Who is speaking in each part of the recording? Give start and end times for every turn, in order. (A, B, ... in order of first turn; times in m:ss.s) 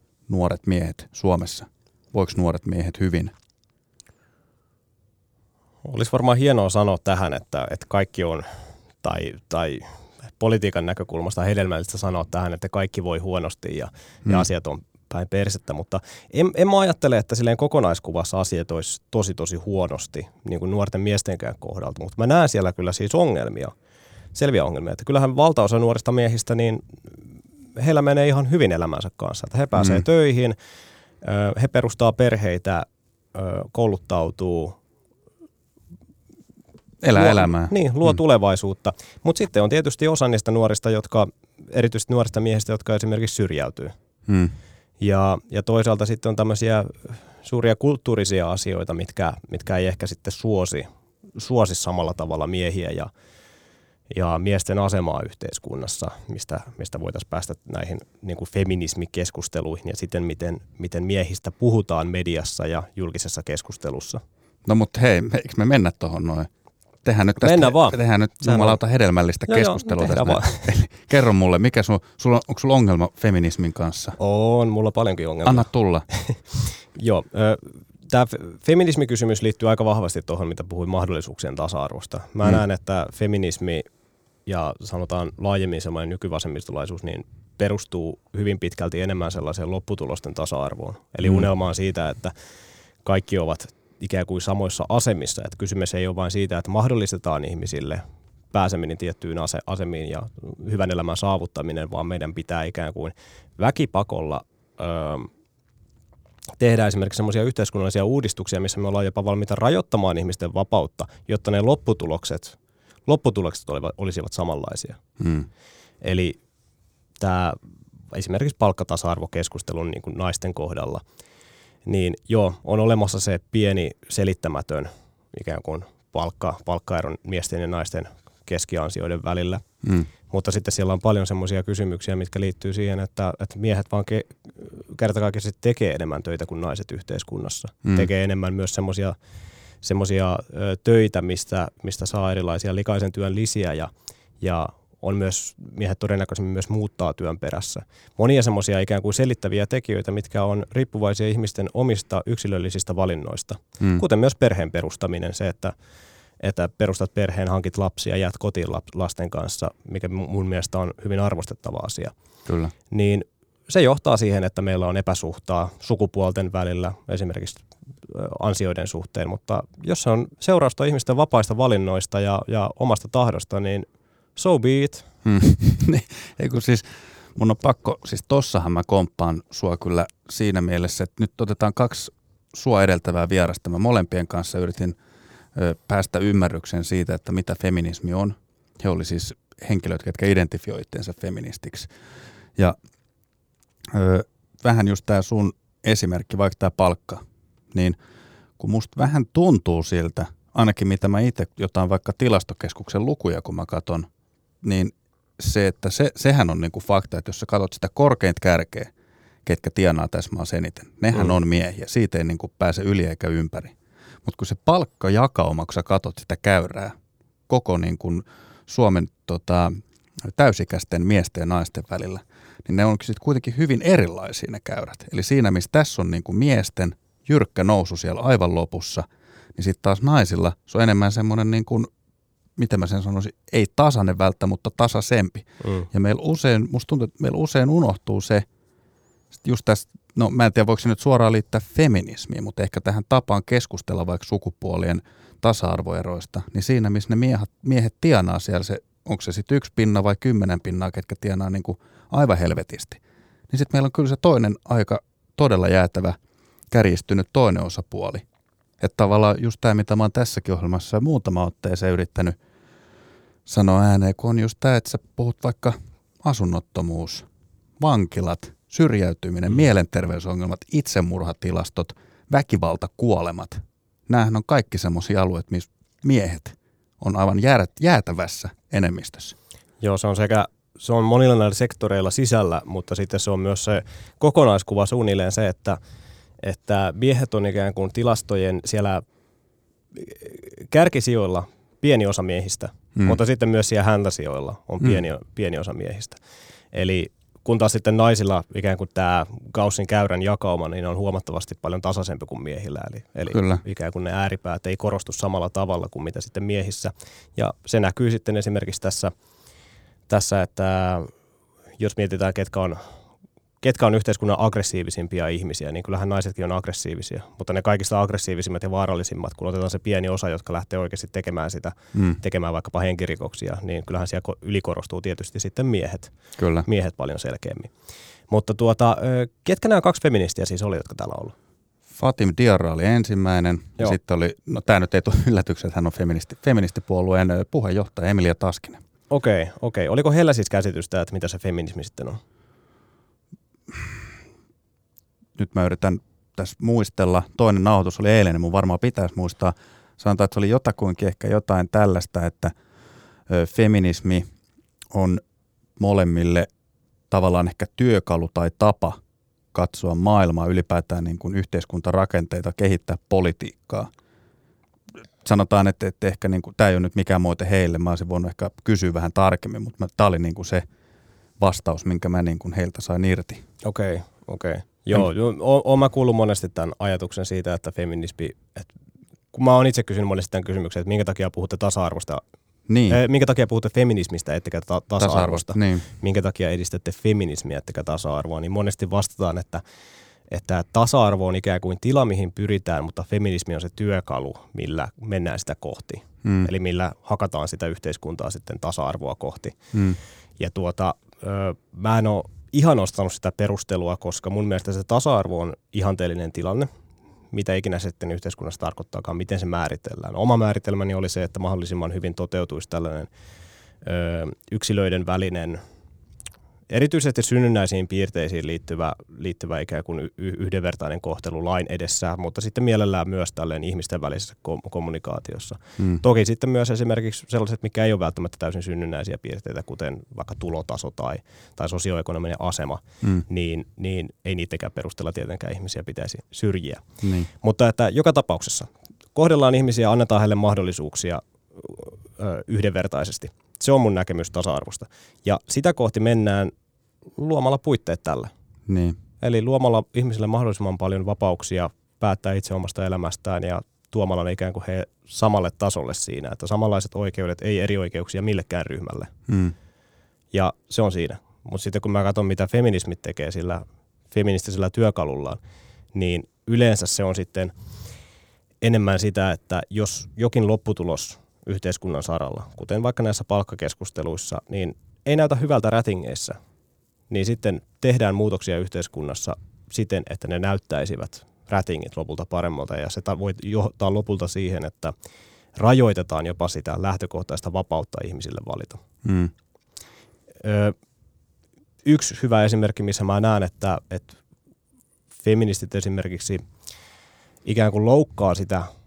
0:00.3-0:03.3 A
0:05.8-0:08.5 B
0:09.0-0:23.7 B
0:24.3-0:27.2 B
0:27.7-0:30.6 B
0:29.8-0:30.0 A
0:31.2-0:34.8 B
0:37.0-0:37.7 A
0:37.1-0:43.9 B
0:44.3-0:44.5 A
0:45.0-0:53.1 B
0:54.1-1:04.2 B
1:04.6-1:06.5 A
1:07.0-1:14.2 A
1:07.4-1:08.8 B
1:09.5-1:10.7 B
1:14.2-1:23.8 B
1:15.4-1:16.0 A
1:24.4-1:32.3 B
1:33.0-1:45.3 B
1:46.6-1:55.0 B
1:55.2-1:55.5 A
1:56.0-1:56.4 B
1:57.2-1:57.6 B
1:58.1-2:01.0 B
2:01.8-2:09.6 B
2:09.8-2:10.1 A
2:10.2-2:19.2 B
2:19.8-2:35.7 B
2:36.4-2:42.1 B
2:42.5-2:42.7 A
2:42.9-2:55.0 B
2:55.2-3:05.0 A
3:05.5-3:11.9 A
3:13.9-3:18.0 A
3:18.6-3:24.1 A
3:24.6-3:28.9 A
3:29.4-3:33.7 A
3:34.2-3:36.9 A
3:37.5-3:51.9 A
3:52.6-3:58.4 A
3:55.6-3:55.9 B
3:59.4-4:13.0 A
4:13.5-4:16.2 A
4:16.7-4:18.2 A
4:18.8-4:22.4 A
4:23.4-4:27.2 A
4:27.8-4:39.3 A
4:39.8-4:45.8 B
4:46.4-4:49.0 B
4:49.9-4:56.2 B
4:56.7-5:09.1 B
5:03.3-5:03.6 A
5:10.1-5:11.1 B
5:11.8-5:12.8 B
5:13.6-5:26.1 B
5:21.9-5:22.2 A
5:26.4-5:26.7 A
5:26.6-5:27.7 B
5:28.3-5:31.3 B
5:31.9-5:38.8 A
5:39.1-5:42.2 B
5:45.4-5:52.5 A
5:53.3-5:54.2 A
5:54.9-5:55.2 A
5:55.8-5:56.5 A
5:57.1-5:59.0 A
5:59.5-6:03.9 A
6:05.2-6:10.6 A
6:11.4-6:13.4 A
6:13.6-6:18.7 B
6:19.3-6:22.2 B
6:22.7-6:23.0 A
6:22.9-6:29.6 B
6:25.0-6:25.9 A
6:30.3-6:39.6 B
6:39.7-6:40.0 A
6:40.4-6:46.7 B
6:47.3-6:53.1 B
6:53.8-6:55.6 B
6:56.7-7:26.5 B
7:17.0-7:17.3 A
7:27.2-7:28.3 B
7:28.7-7:29.0 A
7:29.2-7:39.1 B
7:39.3-7:39.5 A
7:40.3-7:45.4 B
7:45.9-7:47.5 B
7:48.6-7:56.4 B
7:57.1-8:04.9 B
8:05.5-8:08.8 B
8:09.0-8:09.3 A
8:10.4-8:10.7 B
8:11.8-8:14.2 B
8:15.2-8:16.4 B
8:17.4-8:18.7 B